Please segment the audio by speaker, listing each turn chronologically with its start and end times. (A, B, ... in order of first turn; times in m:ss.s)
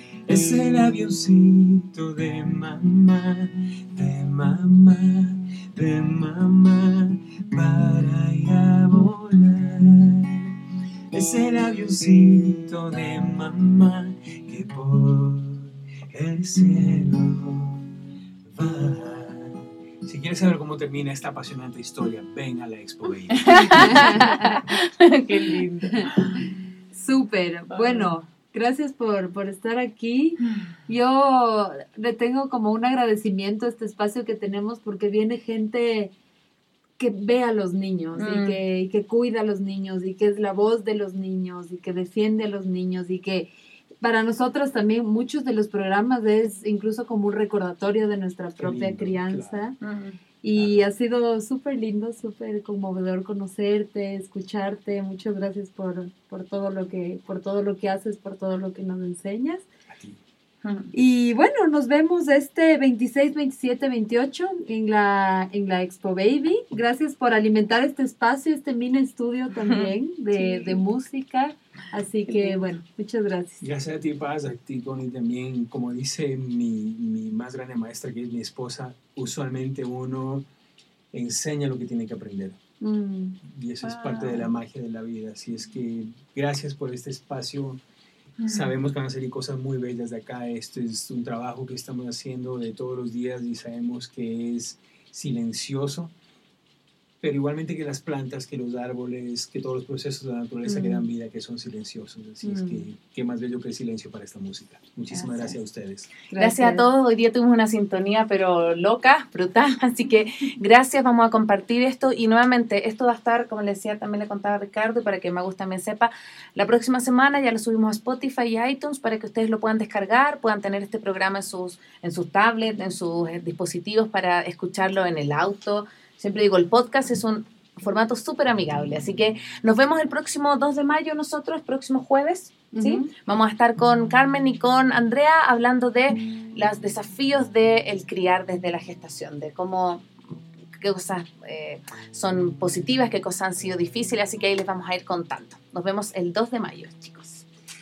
0:00.3-0:10.6 A
0:11.1-0:17.9 A
0:18.4-0:24.3 A
0:23.3-0:26.4 B
0:23.8-0:24.6 C
0:25.9-0:26.2 C
0:26.9-0:36.1 C
0:27.7-0:28.1 B
0:37.0-0:49.7 C
0:38.1-0:38.6 B
0:48.6-0:49.7 A
0:49.8-0:50.2 B
0:50.4-0:59.7 C
0:50.5-0:50.9 A
0:59.9-1:00.2 A
1:00.6-1:00.9 B
1:00.9-1:13.6 C
1:09.5-1:10.8 B
1:12.3-1:12.6 B
1:13.6-1:20.4 A
1:21.1-1:22.6 A
1:22.8-1:23.4 C
1:23.4-1:27.8 A
1:23.8-1:24.5 B
1:28.4-1:28.7 B
1:28.5-1:36.1 A
1:37.2-1:46.1 A
1:40.6-1:41.0 C
1:42.4-1:42.8 C
1:45.1-1:45.6 B
1:46.3-1:46.8 C
1:46.3-2:20.0 B
2:12.7-2:13.1 C
2:20.8-2:27.4 B